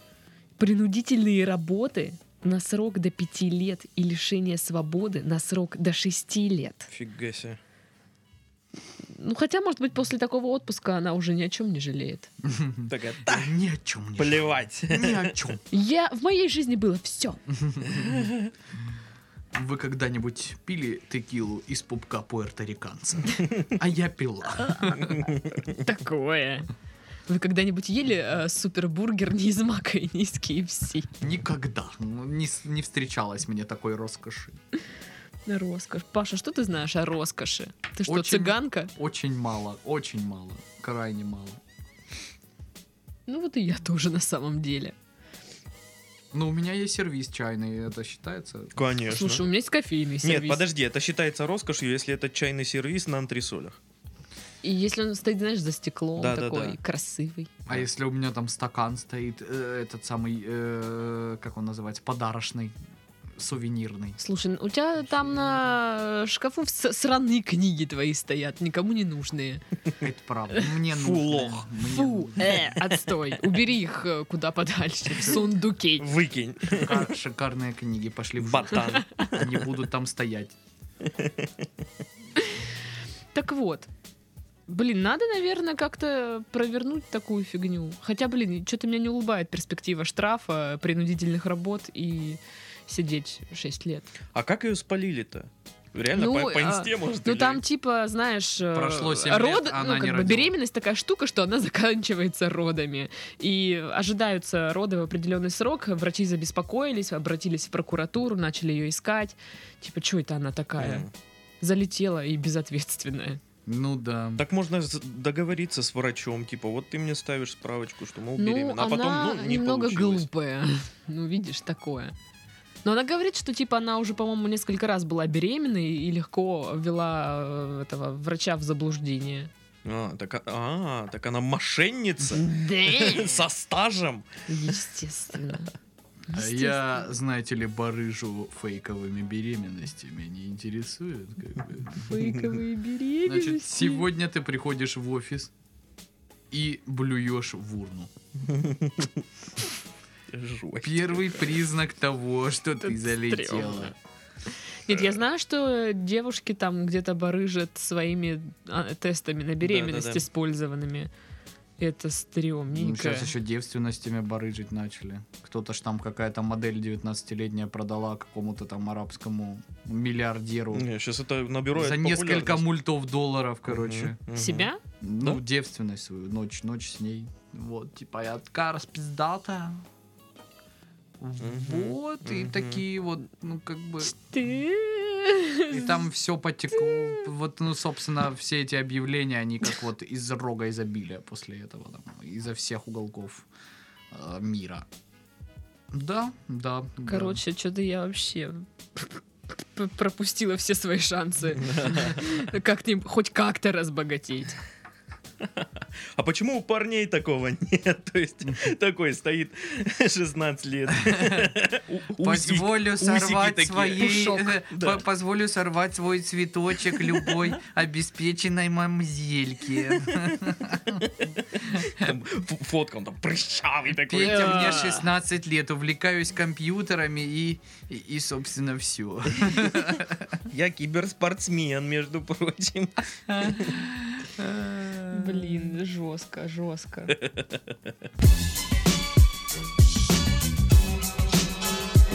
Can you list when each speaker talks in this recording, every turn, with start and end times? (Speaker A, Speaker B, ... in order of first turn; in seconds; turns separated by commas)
Speaker A: 0.6-6.9, Speaker B: 6.9-7.6, Speaker A: 9.1-12.3, Speaker C: 12.4-15.6, Speaker B: 12.9-13.5, Speaker B: 14.2-15.5, Speaker A: 15.7-17.4, Speaker C: 17.5-18.3, Speaker B: 18.0-18.5, Speaker C: 19.5-25.1, Speaker A: 24.7-25.1, Speaker A: 25.7-26.7, Speaker A: 27.3-31.1, Speaker C: 31.2-34.6, Speaker A: 35.5-38.9, Speaker C: 38.0-41.6, Speaker A: 43.3-44.9, Speaker C: 46.3-48.7, Speaker B: 48.7-49.5, Speaker A: 49.1-50.6, Speaker B: 50.2-53.8, Speaker A: 54.6-57.5, Speaker B: 56.2-56.8, Speaker C: 57.7-62.7, Speaker C: 63.4-64.2, Speaker A: 64.2-69.6, Speaker C: 70.0-72.6, Speaker B: 70.8-71.7, Speaker A: 71.9-76.1, Speaker B: 76.0-77.0, Speaker C: 76.8-80.5, Speaker B: 78.4-79.7, Speaker B: 81.0-81.6, Speaker A: 83.3-83.9, Speaker A: 84.7-94.1, Speaker B: 94.3-97.6, Speaker A: 96.1-111.1, Speaker C: 98.7-100.5, Speaker B: 110.8-111.1, Speaker A: 111.6-113.4, Speaker C: 113.7-114.4, Speaker B: 114.4-120.2, Speaker A: 118.4-122.1, Speaker A: 122.8-129.5, Speaker B: 129.8-134.3, Speaker A: 132.3-133.4, Speaker A: 134.5-135.7, Speaker A: 136.3-137.0, Speaker C: 136.3-142.1, Speaker A: 141.9-144.1, Speaker B: 142.2-142.5, Speaker C: 143.2-145.5, Speaker C: 146.5-148.1, Speaker B: 148.4-149.2, Speaker B: 150.3-151.6, Speaker C: 150.8-153.9, Speaker A: 152.8-153.9, Speaker A: 154.9-161.1, Speaker B: 154.9-155.2, Speaker B: 159.6-160.2, Speaker A: 161.8-163.3, Speaker C: 162.7-170.8, Speaker B: 170.7-172.7, Speaker C: 171.7-174.2, Speaker B: 173.7-174.7, Speaker A: 174.3-174.8, Speaker C: 175.0-179.8, Speaker C: 181.2-184.2, Speaker B: 181.4-182.8, Speaker A: 184.0-186.0, Speaker C: 185.7-193.5, Speaker A: 186.9-187.2, Speaker C: 194.1-194.8, Speaker C: 195.9-197.4, Speaker A: 197.1-204.6, Speaker B: 201.6-202.3, Speaker B: 205.4-215.0, Speaker D: 212.2-220.3, Speaker B: 216.9-217.5, Speaker B: 220.0-220.3, Speaker C: 220.2-220.7, Speaker B: 221.0-224.9, Speaker C: 224.1-230.3, Speaker D: 224.2-224.9, Speaker A: 224.2-225.0, Speaker D: 225.4-229.6, Speaker B: 230.4-233.7, Speaker C: 233.3-235.6, Speaker A: 235.1-237.2, Speaker B: 237.1-237.7